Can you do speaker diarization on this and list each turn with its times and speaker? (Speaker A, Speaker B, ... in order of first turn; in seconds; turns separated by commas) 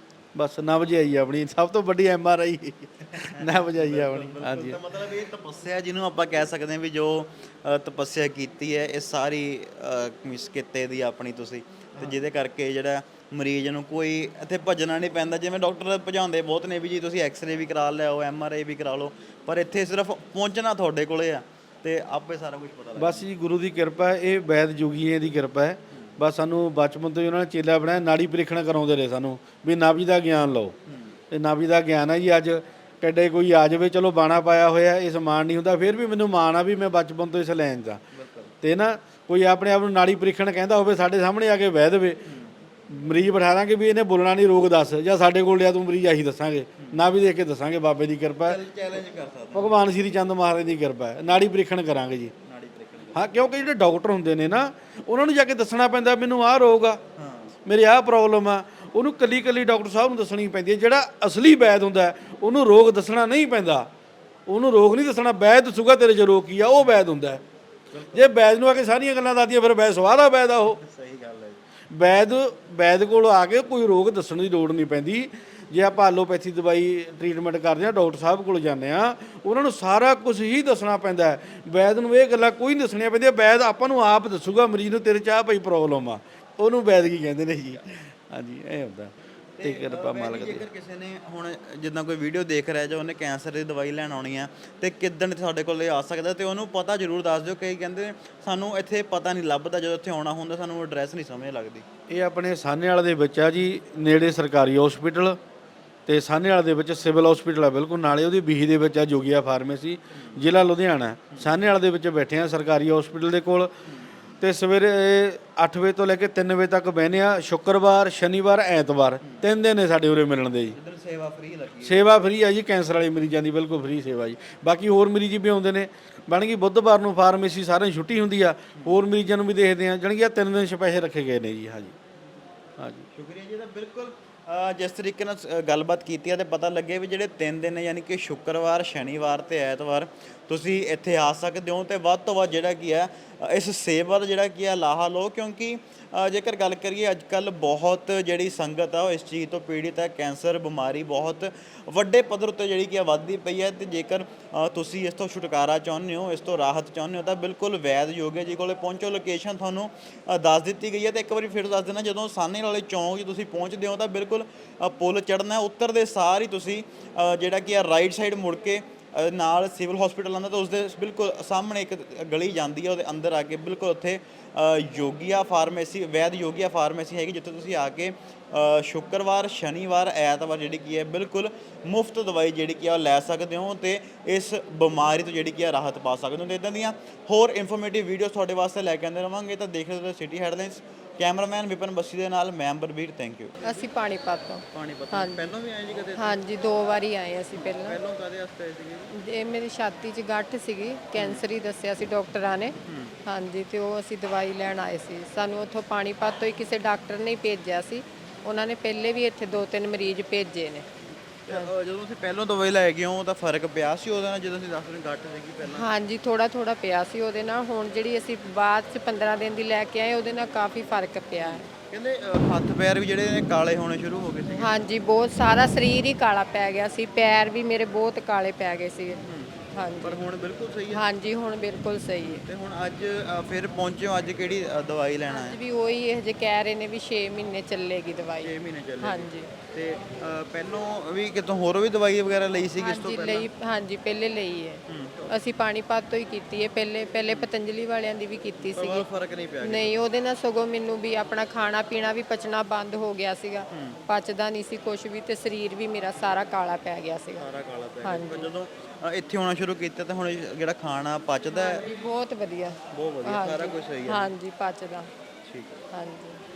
Speaker A: 0.3-4.8, Speaker B: 3.4-23.2, Speaker A: 23.0-30.7, Speaker B: 30.9-31.2, Speaker A: 31.3-38.0, Speaker B: 38.1-38.5, Speaker A: 38.6-42.2, Speaker B: 42.3-42.5, Speaker A: 42.9-48.6, Speaker B: 48.5-49.8, Speaker A: 49.5-52.3, Speaker B: 52.5-53.3, Speaker A: 53.1-57.0, Speaker B: 57.2-57.5, Speaker A: 57.7-63.9, Speaker A: 64.5-67.4, Speaker B: 67.9-68.3, Speaker A: 68.1-70.8, Speaker B: 70.8-71.6, Speaker A: 71.9-90.7, Speaker B: 89.6-101.9, Speaker A: 102.1-105.4, Speaker A: 106.1-113.7, Speaker A: 114.4-120.8, Speaker B: 120.7-122.0, Speaker A: 121.8-131.9, Speaker A: 132.8-133.1, Speaker B: 133.2-193.9, Speaker C: 193.6-195.6, Speaker B: 194.7-196.4, Speaker C: 196.2-198.0, Speaker B: 197.6-199.1, Speaker C: 199.1-202.7, Speaker B: 201.2-201.4, Speaker B: 202.9-203.2, Speaker C: 203.3-210.9, Speaker B: 211.5-215.9, Speaker C: 215.7-221.7, Speaker B: 221.4-224.7, Speaker C: 224.6-229.2, Speaker B: 229.2-231.1, Speaker C: 229.7-230.2, Speaker C: 230.9-232.4, Speaker B: 232.2-235.6, Speaker C: 235.3-239.5, Speaker B: 238.4-243.5, Speaker C: 242.8-249.1, Speaker B: 244.9-245.4, Speaker B: 248.6-250.0, Speaker C: 249.6-257.5, Speaker B: 253.7-254.0, Speaker B: 257.4-261.9, Speaker C: 258.0-258.5, Speaker C: 261.5-265.1, Speaker B: 262.9-264.3, Speaker B: 265.5-265.8, Speaker C: 265.9-266.4